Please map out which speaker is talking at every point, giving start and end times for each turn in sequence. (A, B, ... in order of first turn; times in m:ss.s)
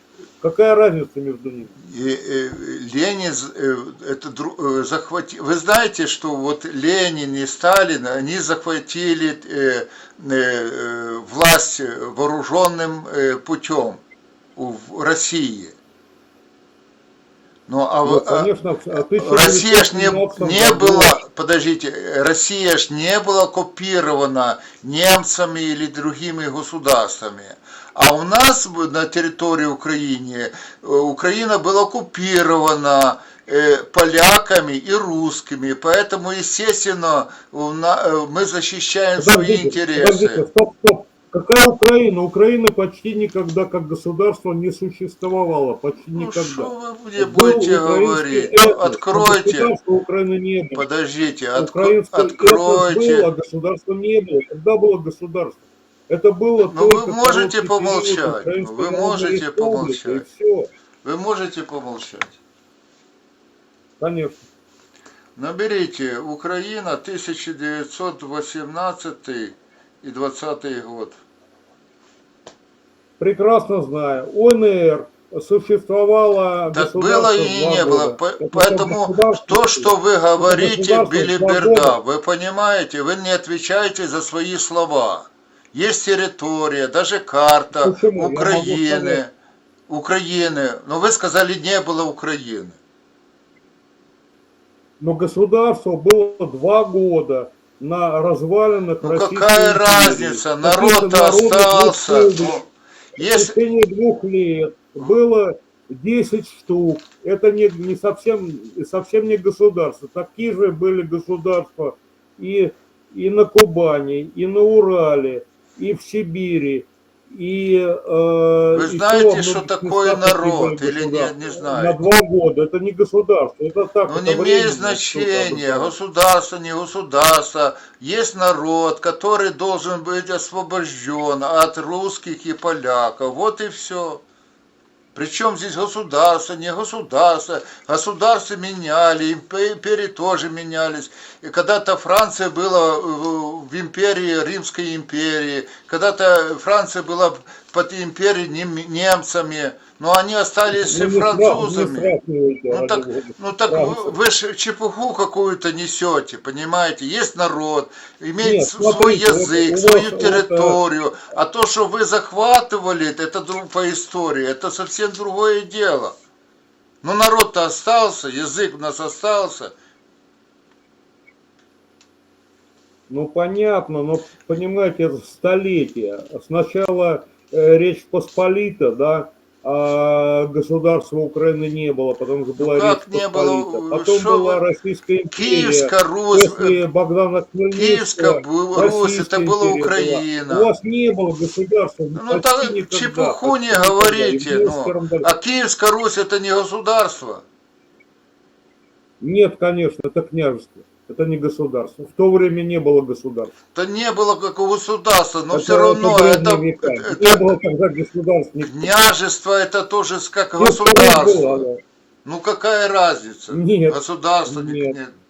0:00.4-0:01.8 A
0:01.8-0:14.0 B
0:14.6-0:15.8 B
0:17.7-0:40.4 B
0:18.0-0:21.2 A
0:39.2-0:50.8 A
0:46.1-0:49.7 B
0:50.8-0:53.3 B
0:51.6-1:00.7 A
0:56.6-1:00.2 B
1:01.0-1:02.4 B
1:04.0-1:04.4 A
1:05.4-1:11.2 B
1:13.2-1:22.0 A
1:16.7-1:29.3 B
1:27.7-1:29.2 A
1:29.9-1:32.8 B
1:35.0-1:42.6 A
1:39.0-1:42.6 B
1:43.2-1:43.5 B
1:43.2-2:06.0 A
1:58.7-2:02.0 B
2:04.1-2:14.2 B
2:15.1-2:32.1 B
2:30.7-2:34.2 A
2:32.7-2:46.2 B
2:38.4-2:40.8 A
2:47.0-2:49.7 B
2:53.1-3:15.3 A
3:02.6-3:04.6 B
3:05.3-3:06.8 B
3:07.7-3:10.7 B
3:12.1-3:17.4 B
3:19.2-3:23.5 A
3:23.7-3:27.5 B
3:25.5-3:28.9 A
3:28.6-3:31.6 B
3:30.6-3:31.8 A
3:32.2-3:35.2 B
3:33.5-3:35.0 A